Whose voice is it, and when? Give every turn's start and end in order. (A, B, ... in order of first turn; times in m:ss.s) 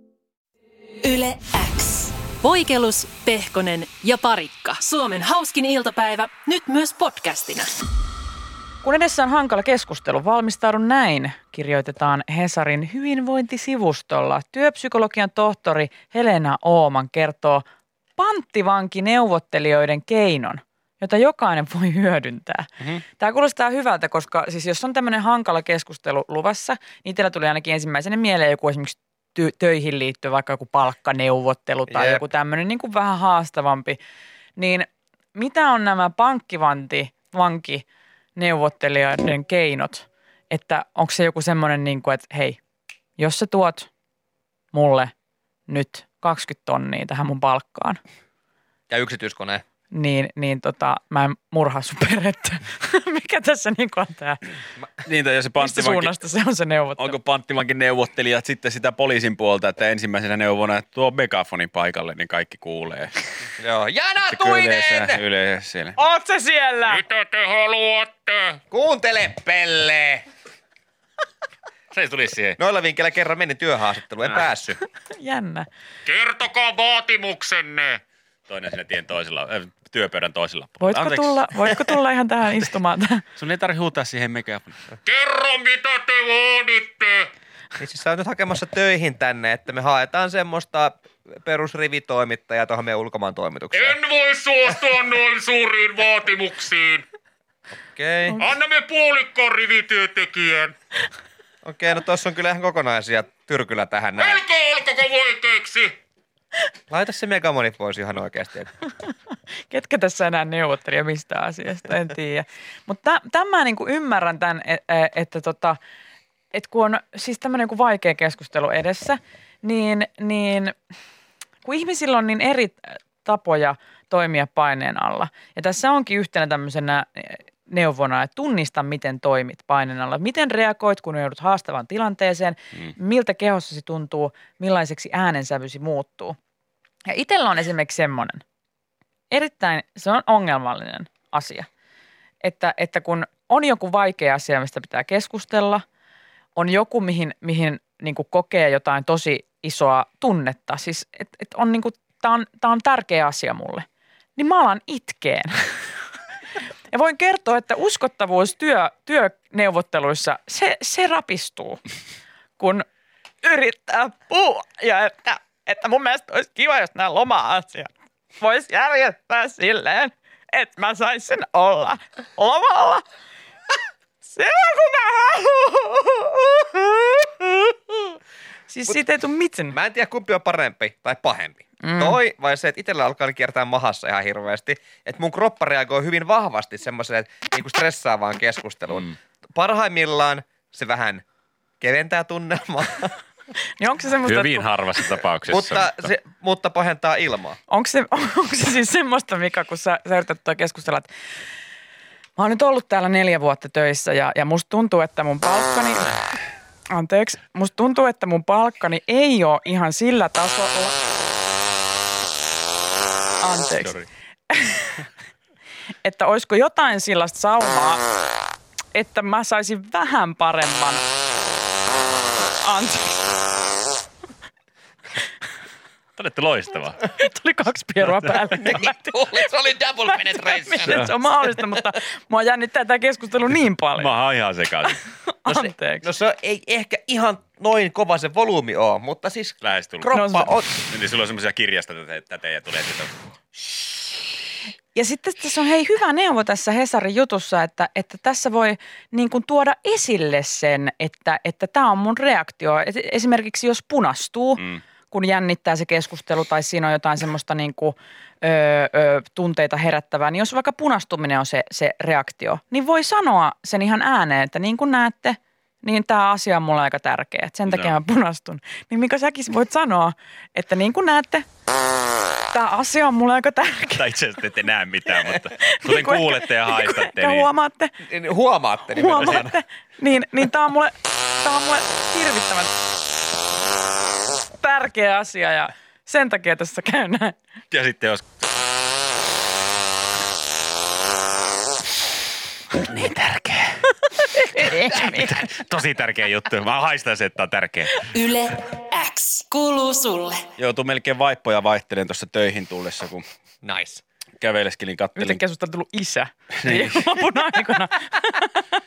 0:01.0-0:07.7 A
0:08.8-0:17.6 B
0:18.2-0:34.0 B
0:31.9-0:32.2 C
0:34.6-0:37.8 B
0:38.4-0:42.6 B
0:43.2-0:43.9 B
0:44.7-0:45.1 B
0:45.7-0:48.0 B
0:48.9-0:49.6 C
0:49.9-0:54.4 B
0:55.0-0:56.1 D
0:55.6-0:57.2 B
0:57.0-1:03.1 D
1:03.6-1:05.2 C
1:04.3-1:06.0 D
1:06.0-1:07.0 B
1:06.9-1:08.6 E
1:08.7-1:10.2 C
1:11.9-1:12.6 D
1:12.6-1:14.8 C
1:15.1-1:15.7 B
1:16.0-1:18.0 E
1:18.5-1:21.4 D
1:20.8-1:23.2 B
1:23.4-1:24.8 D
1:25.0-1:27.3 E
1:27.8-1:34.0 C
1:33.7-1:37.0 E
1:38.0-1:38.4 C
1:38.4-1:40.7 E
1:41.6-1:44.4 C
1:44.2-1:45.9 E
1:46.9-1:48.7 C
1:49.7-1:55.8 B
1:56.5-2:00.7 B
2:01.6-2:16.4 B
2:17.1-2:18.4 B
2:19.3-2:21.7 B
2:22.4-2:25.8 B
2:26.5-2:33.8 B
2:34.4-2:35.9 B
2:36.9-2:41.8 B
2:42.6-2:42.8 B
2:43.4-2:47.9 B
2:48.4-2:53.0 B
2:54.2-2:57.3 B
2:58.7-2:59.8 B
2:59.7-3:11.2 C
3:01.8-3:02.2 B
3:11.8-3:13.1 C
3:13.8-3:14.7 B
3:14.2-3:16.1 D
3:15.5-3:17.6 C
3:17.7-3:21.1 B
3:22.4-3:26.2 B
3:26.9-3:31.0 B
3:33.4-3:34.0 B
3:33.8-3:34.0 D
3:34.5-3:35.0 B
3:36.0-3:38.0 B
3:38.9-3:41.0 B
3:42.6-3:43.4 B
3:46.2-3:47.0 D
3:47.1-3:49.4 B
3:48.5-3:51.1 C
3:50.0-3:54.1 B
3:50.8-3:51.1 D
3:54.0-3:55.0 D
3:55.3-3:56.1 B
3:55.5-3:59.6 C
3:59.6-4:03.2 D
4:00.0-4:00.8 B
4:04.9-4:31.5 B
4:27.7-4:28.0 D
4:32.5-4:34.1 B
4:33.9-4:37.5 D
4:35.2-4:37.9 B
4:38.0-4:39.6 C
4:38.9-4:42.7 B
4:44.5-4:47.4 B
4:47.7-4:48.4 D
4:52.7-4:53.8 D
4:54.1-4:55.4 B
4:54.5-4:58.0 D
4:58.0-5:00.4 A
5:00.6-5:03.2 D
5:03.6-5:04.0 C
5:04.4-5:05.4 D
5:05.2-5:08.6 B
5:06.6-5:07.2 D